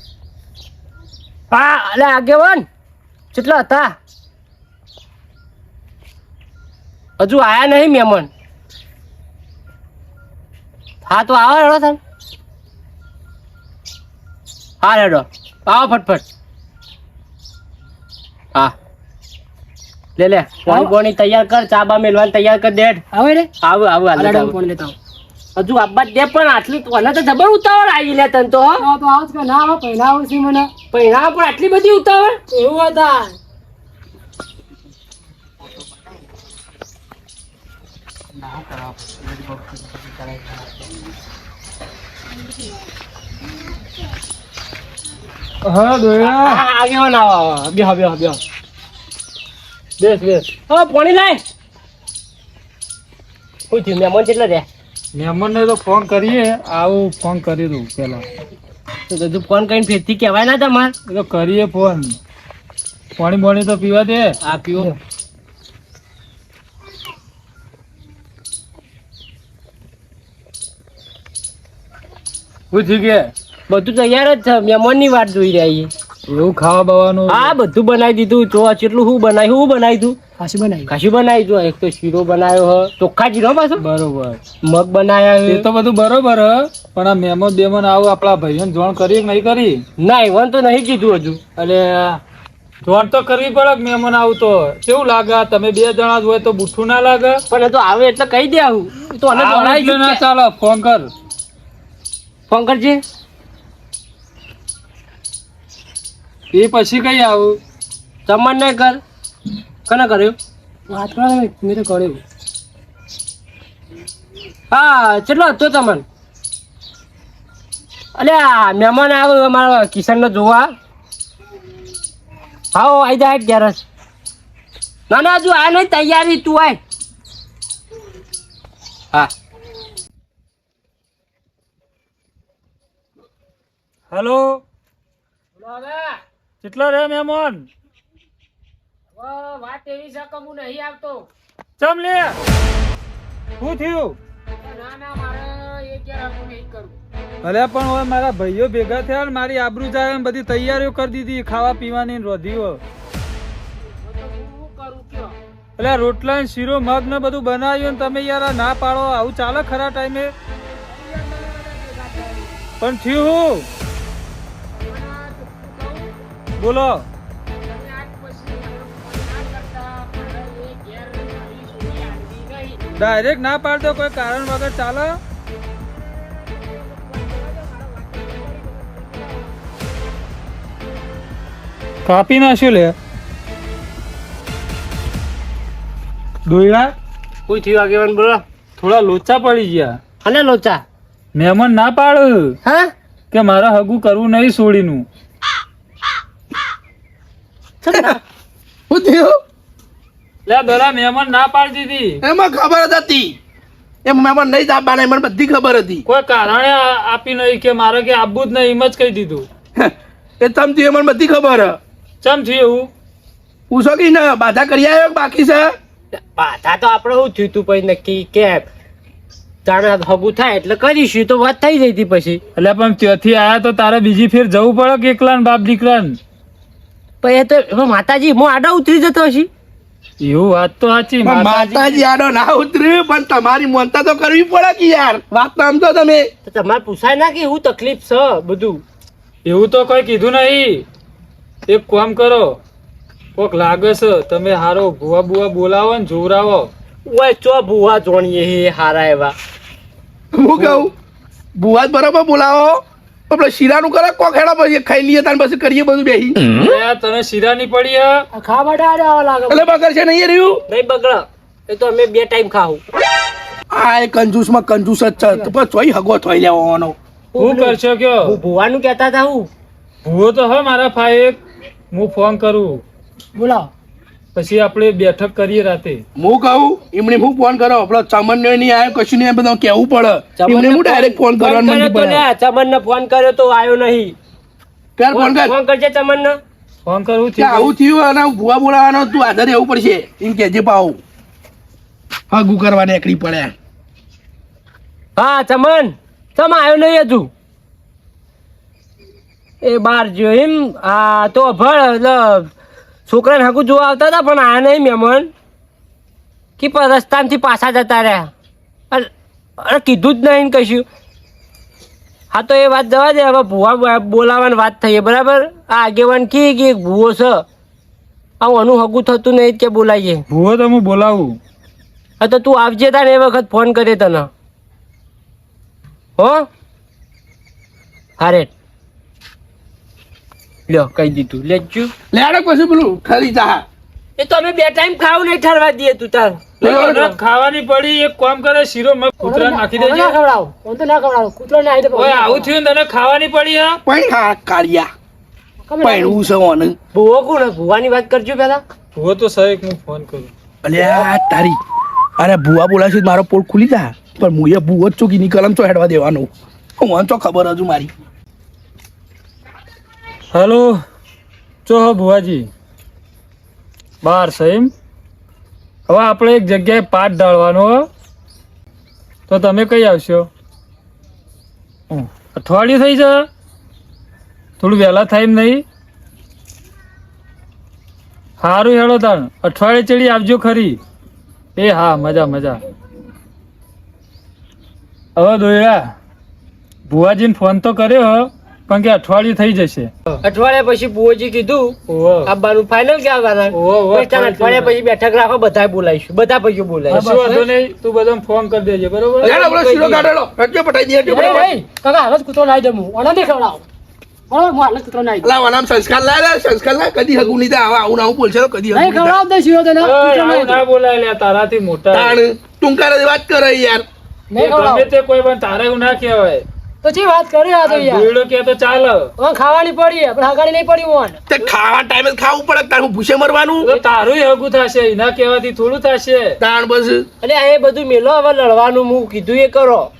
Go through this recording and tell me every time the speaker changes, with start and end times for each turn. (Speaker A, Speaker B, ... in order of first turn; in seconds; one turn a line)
Speaker A: 1.5-2.7
Speaker A: 3.3-3.9
Speaker A: 7.2-8.3
Speaker A: 11.0-12.0
Speaker A: 14.8-16.2
Speaker A: 20.2-23.0
Speaker B: 20.6-20.9
Speaker B: 23.1-23.5
Speaker A: 23.6-24.6
Speaker B: 24.1-24.9
Speaker A: 25.6-28.9
Speaker B: 28.8-30.7
Speaker A: 30.9-32.4
Speaker B: 32.5-33.4
Speaker C: 45.6-46.6
Speaker A: 46.2-48.4
Speaker C: 50.0-50.5
Speaker A: 50.7-51.4
Speaker A: 53.7-54.6
Speaker C: 55.1-58.2
Speaker A: 59.1-60.9
Speaker C: 61.1-62.2
Speaker C: 63.2-64.9
Speaker A: 64.4-64.9
Speaker C: 72.7-73.3
Speaker A: 73.7-75.9
Speaker C: 76.3-77.5
Speaker A: 77.3-80.2
Speaker B: 80.4-80.9
Speaker A: 80.9-83.8
Speaker C: 83.8-84.4
Speaker A: 84.6-85.7
Speaker C: 85.5-89.8
Speaker A: 90.0-91.4
Speaker C: 91.6-92.2
Speaker C: 92.8-97.4
Speaker A: 97.5-100.2
Speaker C: 99.3-101.1
Speaker A: 102.5-103.0
Speaker C: 106.5-107.6
Speaker A: 108.3-109.0
Speaker A: 109.9-110.3
Speaker B: 110.9-112.2
Speaker A: 114.7-116.0
Speaker A: 118.2-120.7
Speaker A: 122.7-123.8
Speaker A: 125.1-126.8
Speaker C: 134.1-134.6
Speaker A: 135.6-136.2
Speaker C: 136.6-137.7
Speaker A: 139.2-141.3
Speaker C: 141.8-142.4
Speaker C: 143.6-144.2
Speaker A: 144.6-146.9
Speaker C: 147.4-152.8
Speaker A: 154.0-155.3
Speaker C: 155.8-160.3
Speaker B: 160.9-162.6
Speaker C: 162.8-163.7
Speaker B: 164.9-166.1
Speaker C: 166.6-167.1
Speaker B: 167.7-172.8
Speaker A: 171.9-172.7
Speaker C: 173.0-175.2
Speaker B: 177.2-179.5
Speaker C: 182.0-182.9
Speaker C: 186.4-186.9
Speaker A: 187.5-188.4
Speaker C: 188.8-190.0
Speaker A: 190.2-190.8
Speaker C: 191.3-192.6
Speaker A: 192.7-192.9
Speaker C: 193.3-195.1
Speaker A: 197.8-198.2
Speaker D: 198.9-199.4
Speaker C: 200.4-202.2
Speaker D: 202.2-203.3
Speaker D: 204.0-206.0
Speaker C: 206.1-209.5
Speaker D: 209.8-211.8
Speaker C: 212.2-212.9
Speaker D: 213.7-215.7
Speaker A: 216.2-218.7
Speaker A: 219.6-222.4
Speaker C: 222.6-226.2
Speaker A: 227.2-229.5
Speaker C: 230.2-231.6
Speaker D: 231.2-236.3
Speaker A: 231.6-232.0
Speaker A: 236.4-238.8
Speaker C: 239.4-240.8
Speaker C: 241.7-242.6
Speaker C: 243.3-246.7
Speaker A: 247.0-249.3
Speaker D: 250.3-250.9
Speaker D: 251.5-256.4
Speaker C: 256.6-258.2
Speaker B: 258.3-259.7
Speaker D: 259.5-260.6
Speaker A: 260.7-262.8
Speaker D: 263.7-266.9
Speaker B: 265.2-265.5
Speaker A: 267.3-269.5
Speaker C: 267.4-268.3
Speaker C: 270.0-271.4
Speaker C: 271.9-272.8
Speaker B: 273.4-273.7
Speaker C: 274.3-276.0
Speaker D: 276.2-282.2
Speaker A: 280.4-284.1
Speaker D: 285.0-285.5
Speaker A: 285.1-286.4
Speaker C: 286.8-287.7
Speaker D: 287.4-291.0
Speaker D: 292.3-293.5
Speaker A: 295.2-297.3
Speaker A: 299.6-302.5
Speaker A: 303.1-305.3
Speaker A: 306.6-308.3
Speaker A: 308.9-310.8
Speaker A: 312.3-317.4
Speaker A: 318.4-320.2
Speaker C: 320.3-321.4
Speaker A: 322.2-324.3
Speaker A: 326.2-326.5
Speaker A: 328.2-328.5
Speaker A: 330.7-331.9
Speaker D: 332.1-333.6
Speaker A: 334.2-336.4
Speaker D: 336.6-337.1
Speaker C: 336.6-340.1
Speaker B: 339.2-342.5
Speaker C: 341.9-343.8
Speaker D: 343.9-344.9
Speaker B: 345.7-346.3
Speaker D: 345.8-346.8
Speaker A: 346.9-348.6
Speaker C: 348.9-350.3
Speaker D: 350.6-351.6
Speaker D: 352.2-357.9
Speaker C: 360.3-360.8
Speaker C: 361.6-362.5
Speaker C: 364.0-364.7
Speaker C: 365.9-367.9
Speaker C: 369.3-370.3
Speaker C: 371.9-373.3
Speaker C: 374.6-375.6
Speaker C: 378.4-380.8
Speaker C: 381.6-382.6
Speaker C: 385.1-385.9
Speaker C: 386.9-389.9
Speaker A: 390.2-397.4
Speaker C: 391.9-392.3
Speaker C: 393.5-394.7
Speaker C: 396.9-399.3
Speaker D: 399.2-401.5
Speaker A: 399.2-400.1
Speaker B: 401.0-403.6
Speaker B: 404.3-405.3
Speaker D: 405.2-409.2
Speaker B: 408.7-410.6
Speaker C: 409.8-412.2
Speaker D: 411.9-413.9
Speaker B: 414.3-414.9
Speaker C: 414.4-416.4
Speaker B: 416.8-418.1
Speaker C: 417.6-419.1
Speaker B: 419.2-421.2
Speaker D: 421.3-423.7
Speaker C: 423.6-426.4
Speaker D: 426.4-427.1
Speaker A: 427.2-429.9